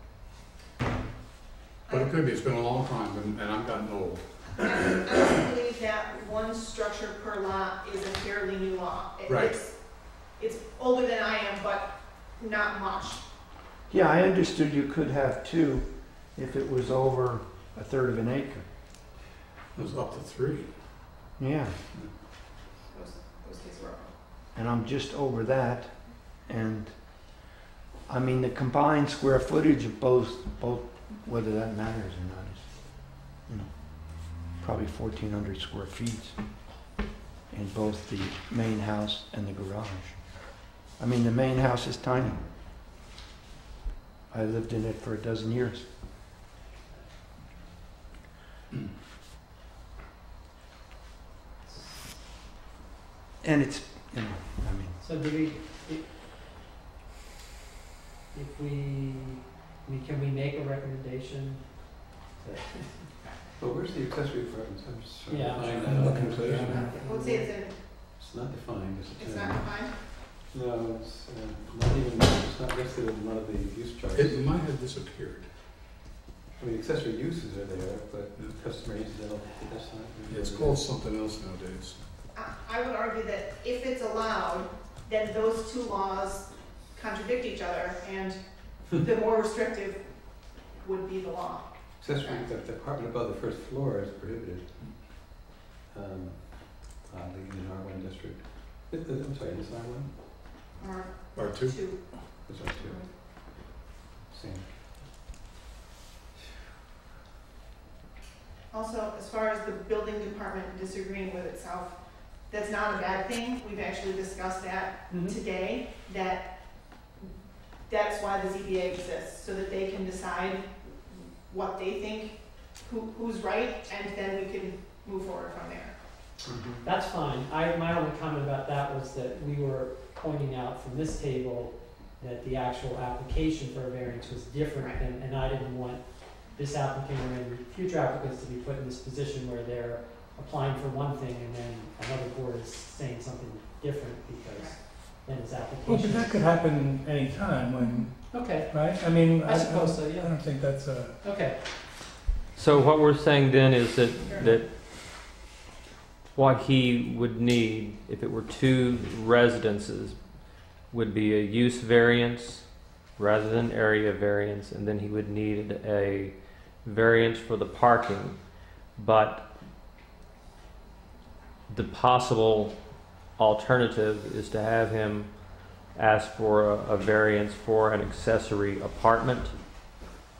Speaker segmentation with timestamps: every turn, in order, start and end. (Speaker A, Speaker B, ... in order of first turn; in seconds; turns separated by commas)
Speaker A: 1.9-2.1, Speaker B: 1.9-4.9, Speaker A: 4.6-13.2, Speaker B: 9.3-9.6, Speaker C: 13.9-18.6, Speaker B: 19.7-20.7, Speaker C: 21.4-21.7, Speaker A: 22.9-24.1, Speaker C: 24.5-26.9, Speaker C: 28.1-36.4, Speaker C: 37.5-42.4, Speaker C: 44.3-45.9, Speaker D: 51.6-52.1, Speaker C: 53.4-55.0, Speaker D: 55.0-56.1, Speaker D: 58.3-63.2, Speaker E: 63.6-66.9, Speaker D: 65.2-67.5, Speaker A: 66.7-67.8, Speaker E: 68.2-74.5, Speaker A: 69.2-70.0, Speaker B: 74.1-75.5, Speaker E: 76.6-80.8, Speaker B: 80.3-82.0, Speaker A: 82.3-92.5, Speaker E: 92.0-100.5, Speaker A: 100.8-103.1, Speaker B: 101.3-101.9, Speaker E: 102.4-103.1, Speaker E: 104.3-104.8, Speaker A: 108.7-117.3, Speaker D: 115.1-115.4, Speaker A: 117.8-126.0, Speaker E: 126.4-126.8, Speaker D: 126.8-146.4, Speaker A: 134.8-135.0, Speaker A: 144.5-144.8, Speaker F: 145.8-151.2, Speaker D: 148.3-150.7, Speaker D: 151.2-151.6, Speaker G: 152.5-154.7, Speaker G: 156.3-160.2, Speaker G: 160.9-162.6, Speaker G: 163.2-168.4, Speaker G: 168.9-169.5, Speaker G: 171.7-172.8, Speaker G: 173.4-175.3, Speaker G: 175.9-179.5